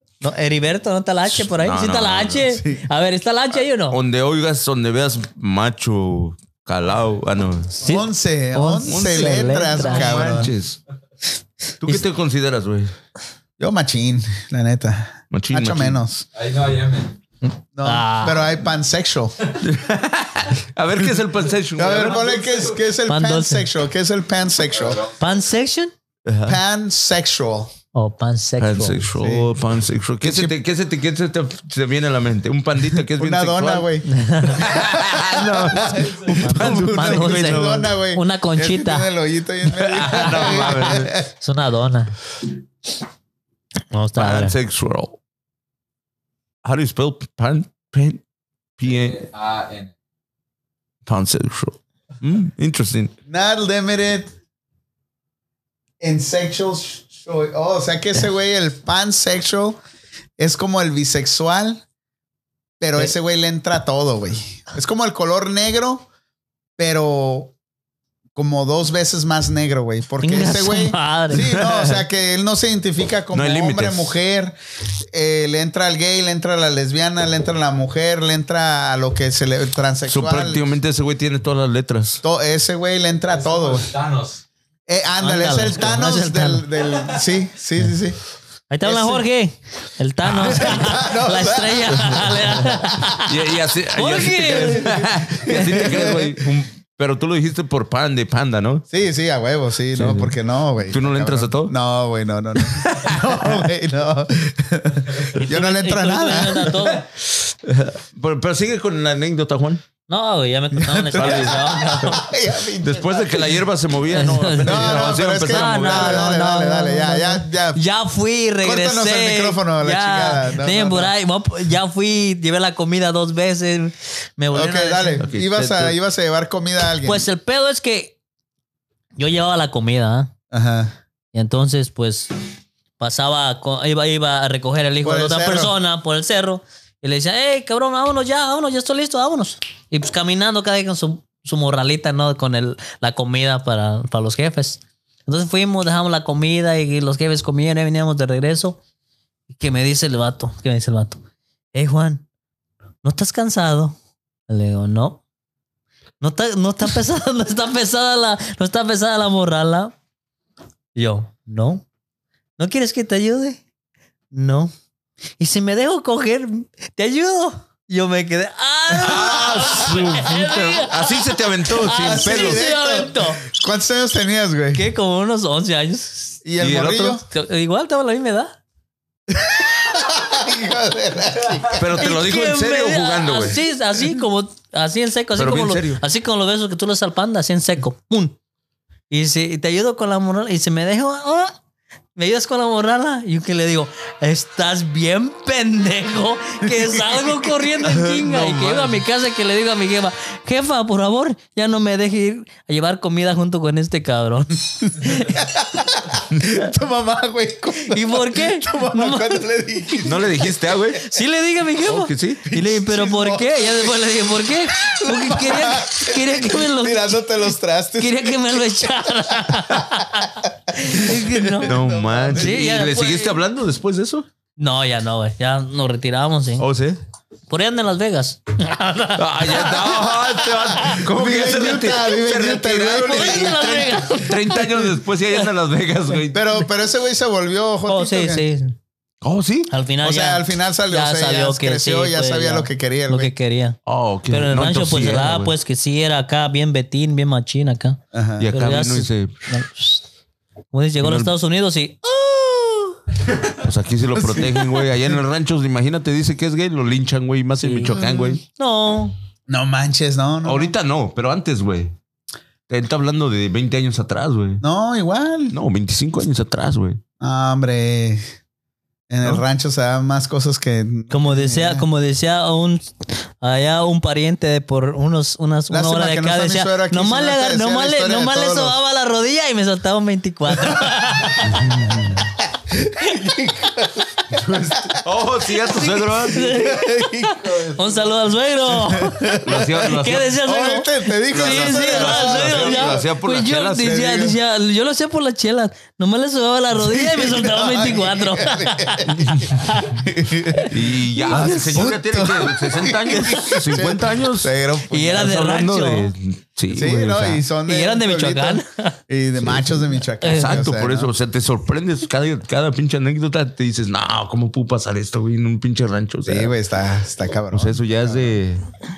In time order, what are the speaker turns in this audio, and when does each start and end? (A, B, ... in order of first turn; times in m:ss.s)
0:00.2-0:04.0 A
0:01.3-0:02.5 B
0:02.5-0:02.9 C
0:03.9-0:07.8 B
0:07.8-0:10.2 A
0:07.8-0:10.5 C
0:08.8-0:10.8 B
0:11.8-0:12.9 B
0:13.6-0:16.2 C
0:15.3-0:16.0 B
0:16.3-0:17.2 D
0:17.7-0:19.3 C
0:17.8-0:18.5 A
0:19.5-0:22.4 B
0:21.8-0:25.0 C
0:22.0-0:22.8 D
0:23.1-0:23.7 A
0:24.8-0:25.1 D
0:25.2-0:25.9 A
0:26.2-0:26.6 B
0:26.4-0:27.7 C
0:27.9-0:29.0 A
0:28.6-0:33.9 B
0:29.2-0:29.5 C
0:30.2-0:30.5 C
0:33.2-0:41.3 C
0:34.1-0:34.7 A
0:34.5-0:37.9 B
0:36.4-0:39.1 A
0:39.7-0:41.1 B
0:41.4-0:42.1 A
0:43.9-0:44.5 A
0:44.2-0:45.2 B
0:46.6-0:48.2 B
0:48.8-0:49.2 B
0:48.8-0:49.9 D
0:51.0-0:53.1 B
0:53.3-0:54.3 C
0:56.0-0:59.8 C
1:00.4-1:01.8 C
1:02.8-1:06.1 C
1:06.8-1:07.5 C
1:08.4-1:14.6 C
1:10.2-1:11.4 A
1:11.3-1:12.0 B
1:13.3-1:14.1 B
1:15.1-1:20.6 C
1:20.1-1:22.2 B
1:22.2-1:23.9 C
1:23.3-1:24.4 D
1:24.9-1:28.2 C
1:25.2-1:26.7 A
1:28.7-1:33.3 A
1:28.8-1:29.2 C
1:30.4-1:32.3 C
1:32.0-1:38.8 B
1:33.9-1:36.1 A
1:34.5-1:36.3 C
1:38.9-1:46.8 C
1:39.9-1:41.7 B
1:42.6-1:43.6 B
1:45.4-1:47.0 A
1:47.1-1:49.8 B
1:50.1-1:52.2 A
1:50.7-1:53.6 C
1:51.1-1:51.8 B
1:52.8-1:56.3 B
1:54.1-2:05.2 A
1:54.6-1:57.8 C
1:58.6-2:01.1 C
2:04.5-2:07.2 C
2:05.2-2:06.0 B
2:07.0-2:08.2 A
2:09.2-2:10.3 A
2:10.5-2:10.9 C
2:11.3-2:12.3 A
2:13.0-2:28.8 A
2:15.0-2:15.7 C
2:29.5-2:31.2 A
2:31.7-2:32.2 A
2:33.0-2:34.0 A
2:34.5-2:35.2 A
2:36.2-2:39.9 A
2:40.9-2:41.8 A
2:42.6-2:43.6 A
2:44.3-2:44.7 A
2:45.4-2:53.4 A
2:48.9-2:52.6 B
2:52.0-2:54.8 C
2:54.7-2:56.4 A
2:56.4-2:57.2 C
2:56.6-2:57.2 B
2:57.3-2:58.6 A
2:59.3-3:02.0 C
3:01.7-3:03.6 B
3:02.0-3:08.4 A
3:05.4-3:06.0 B
3:09.1-3:11.6 A
3:12.1-3:25.4 A
3:16.9-3:17.3 C
3:17.8-3:19.0 B
3:25.1-3:30.6 C
3:27.8-3:30.0 A
3:30.0-3:31.0 B
3:31.0-3:37.3 A
3:31.8-3:32.4 B
3:32.4-3:34.1 C
3:34.7-3:42.6 C
3:38.0-3:41.7 A
3:41.6-3:44.3 B
3:42.3-3:43.4 A
3:44.6-3:46.6 A
3:46.6-3:47.0 B
3:47.5-3:51.0 A
3:49.2-3:56.4 B
3:50.9-3:53.6 C
3:53.0-3:55.4 A
3:56.3-3:58.4 C
3:57.9-3:58.8 A
3:59.2-3:59.7 B
3:59.7-4:03.8 A
4:00.0-4:03.3 C
4:03.8-4:05.5 B
4:04.3-4:08.0 A
4:08.1-4:08.5 C
4:08.4-4:09.3 B
4:08.5-4:10.0 A
4:10.7-4:13.0 A
4:11.0-4:11.3 B
4:13.6-4:18.4 B
4:14.2-4:14.6 C
4:17.6-4:19.1 A
4:19.5-4:20.7 C
4:20.4-4:21.9 B
4:22.7-4:24.6 B
4:24.6-4:25.5 C
4:25.5-4:27.0 B
4:27.2-4:28.2 C
4:29.1-4:31.9 C
4:31.1-4:42.0 A
4:35.7-4:38.8 C
4:41.9-4:45.0 C
4:44.3-4:46.6 B
4:45.7-5:01.9 A
4:46.4-4:48.1 C
4:48.7-4:49.9 C
4:49.4-4:50.3 B
4:50.4-4:53.1 C
4:51.3-4:54.0 B
4:53.8-4:54.4 C
4:56.7-5:05.3 C
5:00.7-5:07.4 B
5:04.9-5:06.1 A
5:06.7-5:11.1 C
5:07.6-5:09.0 A
5:09.4-5:16.5 B
5:10.2-5:10.6 A
5:16.2-5:18.4 C
5:17.5-5:18.6 B